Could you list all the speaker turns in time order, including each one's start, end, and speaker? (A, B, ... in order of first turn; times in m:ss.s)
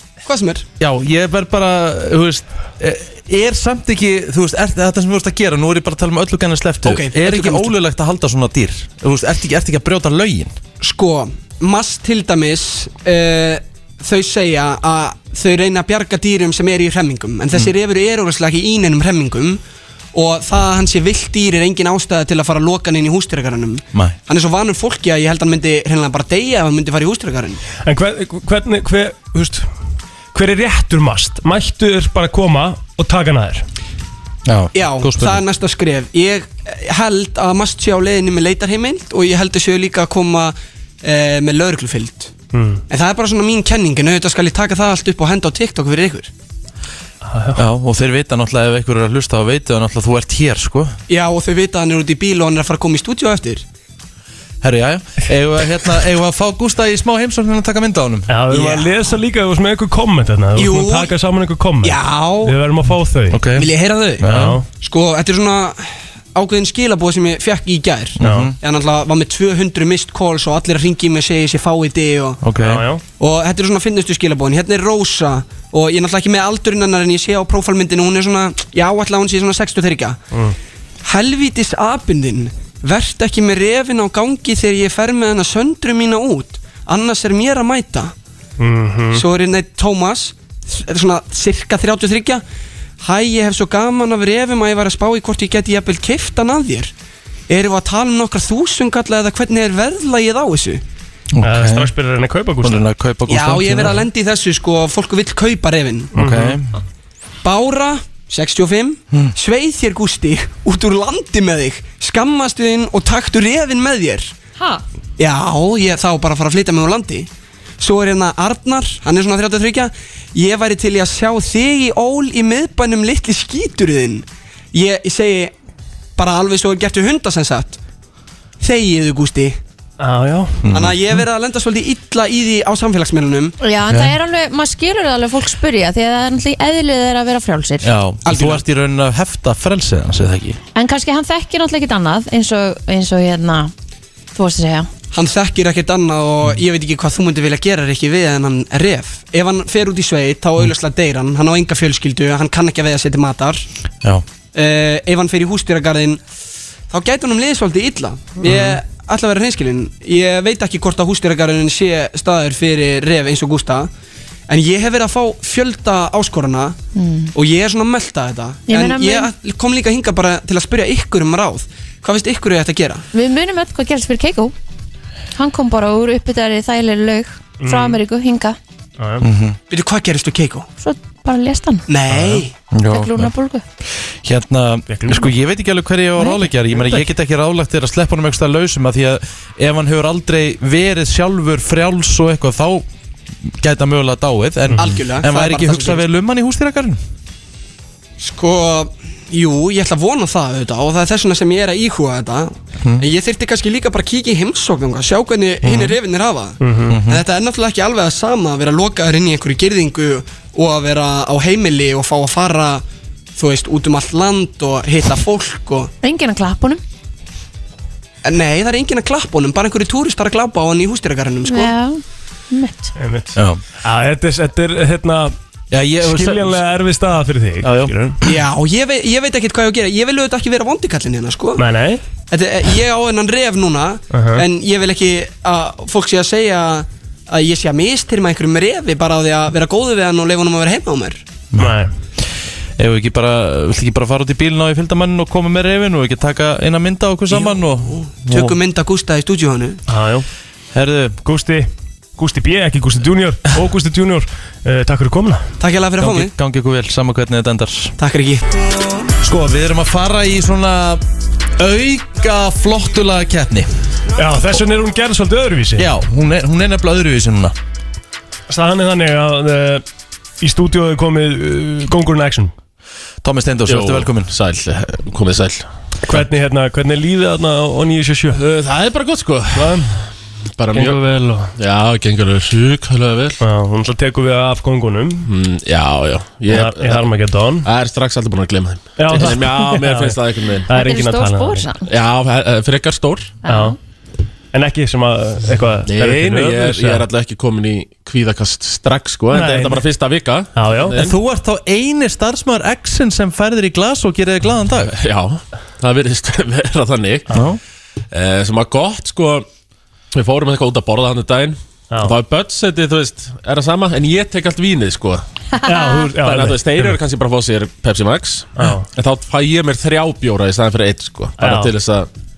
0:00.2-0:00.7 A
0:00.8-0:10.6 B
0:06.8-0:07.7 A
0:10.8-0:19.6 A
0:20.1-0:27.6 A
0:27.8-0:29.7 C
0:30.3-0:33.7 C
0:34.5-0:35.4 B
0:34.7-0:42.3 A
0:42.5-0:42.8 C
0:42.9-0:46.3 A
0:47.3-0:47.6 C
0:47.6-0:51.0 B
0:51.1-0:53.6 A
0:54.6-0:58.3 B
0:58.3-1:03.4 C
0:58.5-0:58.9 A
1:00.6-1:01.1 A
1:01.8-1:02.6 A
1:03.3-1:04.6 B
1:03.6-1:12.4 A
1:04.3-1:04.6 C
1:08.2-1:08.6 B
1:08.2-1:08.5 C
1:12.4-1:12.8 B
1:12.6-1:13.0 C
1:13.2-1:20.2 A
1:21.0-1:28.1 A
1:28.6-1:29.2 C
1:29.1-1:32.4 A
1:33.0-1:36.9 A
1:37.5-1:40.8 A
1:41.3-1:41.9 B
1:41.4-1:42.8 C
1:42.6-1:44.0 B
1:43.3-1:46.1 A
1:46.2-1:46.7 B
1:46.2-1:46.6 C
1:47.4-1:54.3 A
1:54.6-1:54.8 D
1:55.2-1:57.3 A
1:57.8-2:05.5 A
2:06.2-2:07.8 A
2:08.6-2:09.6 A
2:10.0-2:10.6 C
2:10.6-2:11.2 B
2:10.7-2:13.5 A
2:13.6-2:17.9 D
2:13.9-2:14.1 B
2:17.8-2:20.6 B
2:18.2-2:18.6 A
2:20.8-2:23.7 D
2:24.4-2:24.9 D
2:25.1-2:33.6 A
2:34.5-2:36.2 A
2:36.9-2:43.9 A
2:38.4-2:38.8 B
2:44.5-2:46.8 A
2:47.0-2:47.3 D
2:47.4-2:53.0 A
2:48.7-2:49.3 D
2:53.1-2:54.5 D
2:55.4-2:58.6 D
2:57.6-2:58.0 C
2:59.0-2:59.3 C
2:59.2-2:59.6 B
2:59.7-3:00.7 A
3:00.8-3:01.8 D
3:01.9-3:02.5 A
3:02.1-3:03.3 B
3:02.9-3:03.6 D
3:03.8-3:12.9 B
3:04.9-3:05.3 C
3:06.2-3:06.4 D
3:06.8-3:07.1 C
3:13.6-3:17.0 B
3:14.8-3:16.0 A
3:18.2-3:32.8 A
3:25.6-3:26.0 B
3:26.6-3:27.0 C
3:26.9-3:27.2 B
3:33.4-3:35.9 A
3:36.0-3:36.8 D
3:38.2-3:41.8 A
3:41.5-3:43.0 D
3:43.0-3:45.4 C
3:43.4-3:43.6 B
3:45.7-3:46.6 B
3:46.0-3:48.2 C
3:47.6-3:48.3 B
3:48.2-3:51.6 A
3:51.6-3:52.0 C
3:52.3-4:01.2 A
3:54.1-3:54.4 C
4:01.5-4:01.8 B
4:01.6-4:01.9 C
4:02.8-4:08.6 B
4:07.3-4:09.8 A
4:09.9-4:10.3 C
4:10.7-4:11.2 B
4:11.2-4:15.4 C
4:15.6-4:16.3 A
4:16.0-4:17.9 B
4:18.0-4:18.4 A
4:19.2-4:21.0 B
4:21.6-4:23.7 B
4:24.2-4:25.9 C
4:25.8-4:27.6 B
4:28.5-4:29.8 C
4:30.4-4:32.5 C
4:33.2-4:34.3 B
4:33.7-4:35.7 E
4:36.1-4:38.4 C
4:38.3-4:39.9 E
4:39.5-4:39.9 C
4:40.6-4:43.4 E
4:40.7-4:41.5 C
4:43.4-4:45.3 C
4:45.3-4:47.1 E
4:46.5-4:47.7 C
4:47.6-4:50.7 E
4:49.0-4:51.7 C
4:50.7-4:51.9 D
4:51.9-4:53.4 E
4:53.4-4:53.8 D
4:53.4-4:53.8 C
4:54.5-4:57.1 C
4:55.9-5:01.2 E
4:59.3-4:59.8 C
5:00.6-5:01.0 C
5:00.9-5:04.9 B
5:04.9-5:07.3 E
5:07.3-5:07.6 B
5:08.1-5:09.5 E
5:10.1-5:15.2 E
5:11.9-5:12.2 C
5:15.6-5:17.0 C
5:16.2-5:22.1 E
5:18.6-5:18.9 C
5:21.4-5:21.7 C